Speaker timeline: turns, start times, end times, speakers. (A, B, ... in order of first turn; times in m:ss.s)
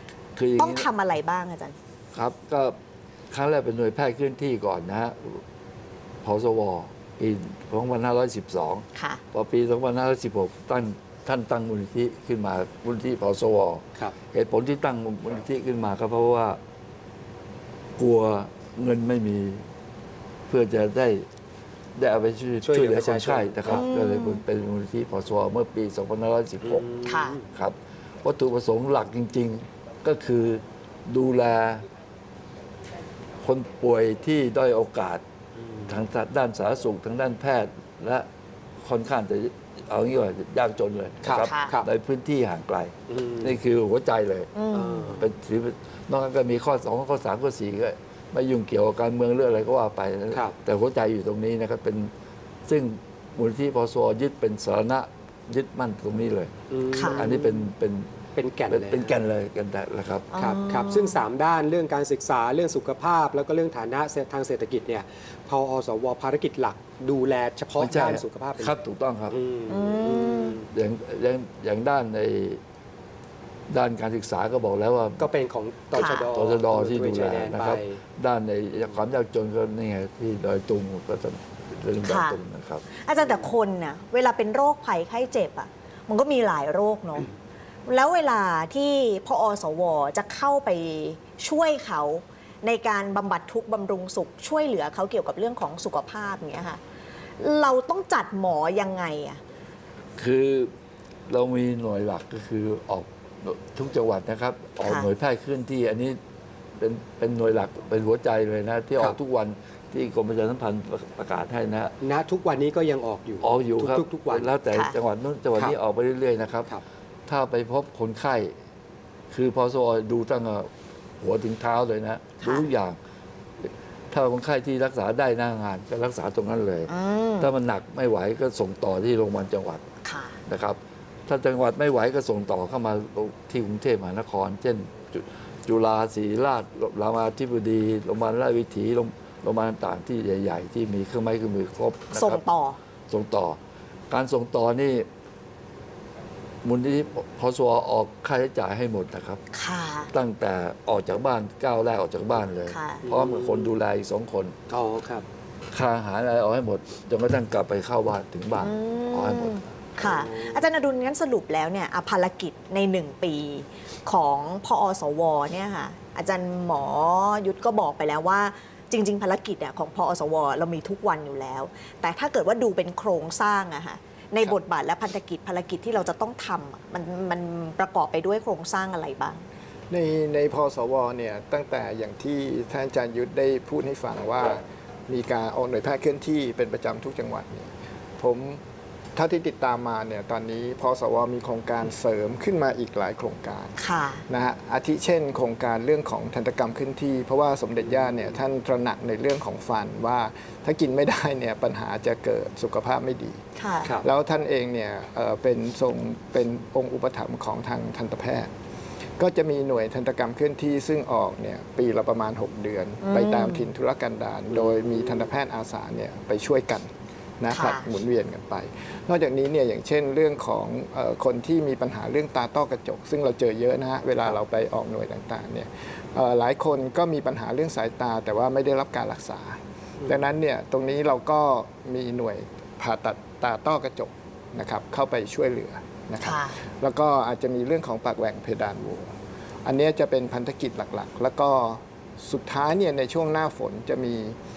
0:00.4-0:00.9 A
0:00.6-0:01.8 B
0:02.1-0:02.8 A
0:03.3-0:05.4 A
0:06.2-0:16.6 A
0:09.0-0:09.2 B
0:18.0-0:19.6 A
0:20.5-0:21.3 A
0:22.0-0:26.9 A
0:22.6-0:23.8 C
0:23.7-0:24.4 B
0:26.6-0:27.5 C
0:27.0-0:27.4 B
0:27.5-0:31.9 A
0:33.4-0:35.2 A
0:35.6-0:35.9 C
0:35.9-0:38.3 A
0:38.8-0:44.5 A
0:41.2-0:41.9 C
0:41.4-0:41.8 B
0:43.1-0:43.5 C
0:44.5-0:45.2 B
0:44.7-0:45.3 C
0:45.1-0:52.1 A
0:52.7-0:56.5 A
0:56.7-0:57.6 C
0:56.9-0:57.2 B
0:57.1-0:58.2 A
0:58.4-0:59.2 C
0:58.7-1:00.3 A
1:00.3-1:01.2 B
1:00.4-1:10.7 C
1:07.8-1:09.4 A
1:09.7-1:10.6 B
1:10.7-1:12.6 A
1:13.7-1:15.3 A
1:15.2-1:18.0 C
1:15.9-1:22.9 A
1:15.9-1:16.3 B
1:22.0-1:22.4 B
1:22.9-1:27.3 B
1:27.9-1:36.8 B
1:37.4-1:39.4 B
1:40.2-1:40.7 A
1:41.3-1:46.2 A
1:44.8-1:45.1 B
1:46.8-1:51.9 A
1:52.0-1:54.5 C
1:53.4-1:56.7 A
1:54.7-1:55.0 B
1:57.3-1:58.5 A
1:59.3-2:00.7 A
2:01.2-2:03.0 A
2:02.4-2:02.7 B
2:03.6-2:09.8 A
2:06.9-2:07.5 B
2:10.0-2:10.4 B
2:10.5-2:22.4 A
2:22.1-2:22.8 B
2:23.1-2:23.6 A
2:24.1-2:25.1 A
2:26.6-2:29.4 A
2:29.5-2:30.1 B
2:30.1-2:34.6 A
2:32.7-2:33.1 B
2:33.0-2:33.7 C
2:34.7-2:35.3 C
2:35.7-2:39.6 A
2:38.6-2:59.4 B
2:40.0-2:40.7 C
2:59.9-3:08.6 D
3:09.2-3:13.8 D
3:13.8-3:14.2 B
3:14.3-3:23.4 D
3:17.8-3:18.3 C
3:23.6-3:24.0 B
3:24.0-3:28.5 D
3:29.2-4:04.4 D
3:33.0-3:33.7 B
3:34.5-3:34.9 C
3:37.5-3:37.9 B
3:56.2-3:56.6 B